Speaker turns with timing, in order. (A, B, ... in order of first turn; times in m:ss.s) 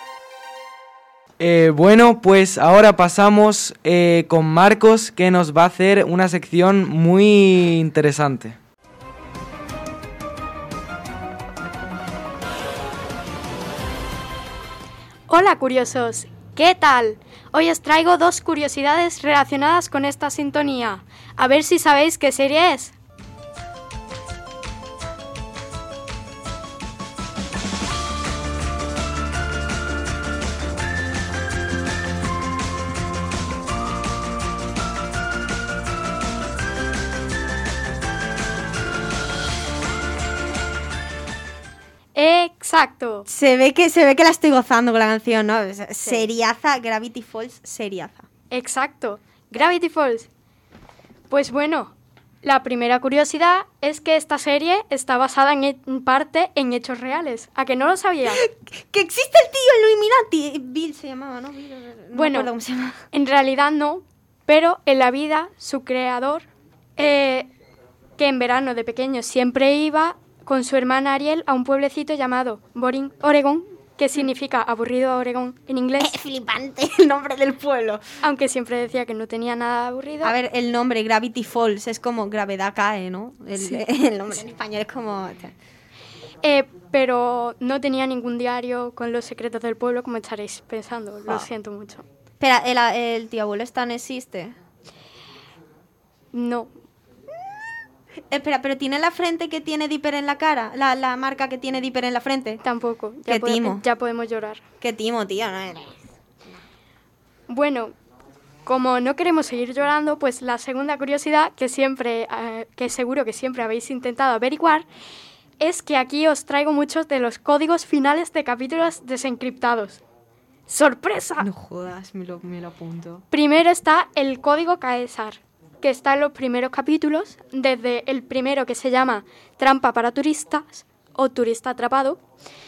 0:01.4-0:08.6 A
0:15.3-0:22.9 B
0:42.1-0:43.2 B
0:43.3-0:48.2 C
0:48.5-0:50.3 B
0:51.3-0:58.4 B
0:58.2-1:03.0 C
1:02.1-1:02.5 B
1:03.1-1:06.4 B
1:07.0-1:07.5 B
1:08.2-1:16.1 B
1:16.0-1:18.0 C
1:18.2-1:20.3 B
1:20.2-1:25.5 C
1:26.4-1:32.0 B
1:32.4-1:34.5 C
1:36.3-1:36.7 B
1:38.3-1:42.6 C
1:42.6-1:44.6 B
1:43.2-1:43.8 C
1:44.8-1:46.0 C
1:47.5-1:47.9 B
1:48.6-1:54.9 B
1:55.6-2:00.0 B
2:00.7-2:01.5 B
2:01.4-2:03.2 C
2:03.3-2:12.2 B